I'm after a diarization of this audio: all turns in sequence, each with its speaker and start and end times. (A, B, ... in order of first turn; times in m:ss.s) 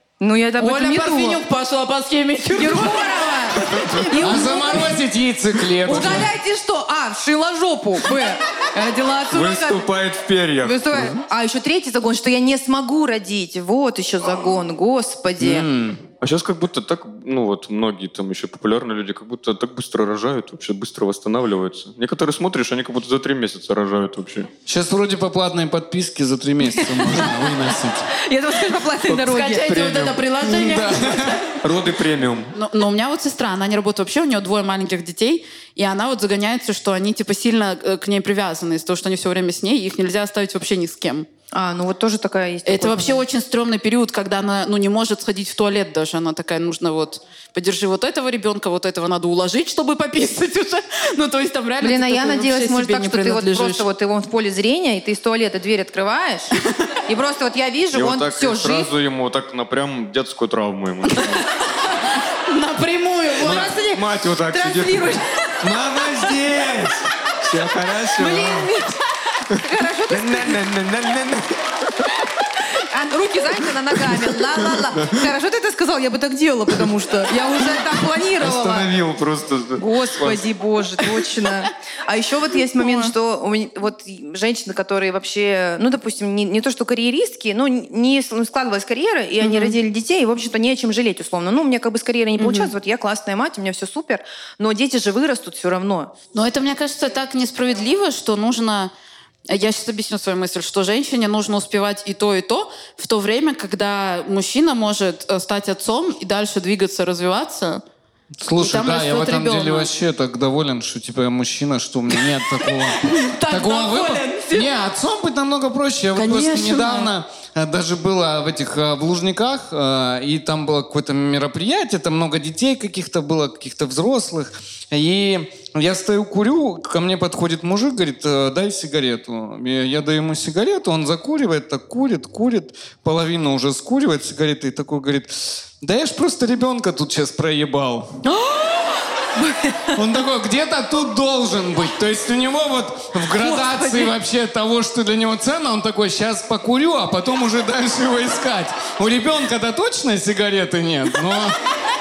0:00.2-0:01.4 A
0:00.6-0:04.8 B
0:02.5-0:04.9 A
0:03.8-0:04.1 C
0:04.2-0:06.3 D
0:05.8-0:09.9 A
0:09.3-0:11.2 C
0:10.6-0:15.7 A
0:15.4-0:16.0 D
0:16.2-0:24.5 C
0:24.6-0:28.1 D
0:26.9-0:27.3 A
0:28.2-0:29.8 A
0:29.1-0:31.6 B
0:29.6-0:30.2 C
0:30.4-0:31.4 D
0:31.6-0:32.5 C
0:32.5-0:41.3 B
0:41.5-0:43.2 A
0:42.6-0:53.9 B
0:51.8-0:56.5 A
0:57.1-0:58.9 A
0:57.9-1:01.4 C
1:02.5-1:03.7 B
1:03.4-1:05.5 A
1:03.4-1:08.7 C
1:08.2-1:09.0 A
1:09.5-1:10.6 A
1:10.1-1:11.6 C
1:12.7-1:18.9 A
1:14.9-1:15.3 C
1:18.4-1:20.4 C
1:19.8-1:36.1 A
1:22.8-1:23.1 B
1:29.4-1:29.7 B
1:32.4-1:32.7 B
1:36.3-1:38.9 B
1:39.5-1:47.8 B
1:48.4-2:18.2 D
1:48.6-1:49.9 B
1:53.0-1:54.7 B
1:56.2-1:57.1 B
2:18.2-2:20.0 A
2:19.9-2:31.6 D
2:23.4-2:24.0 A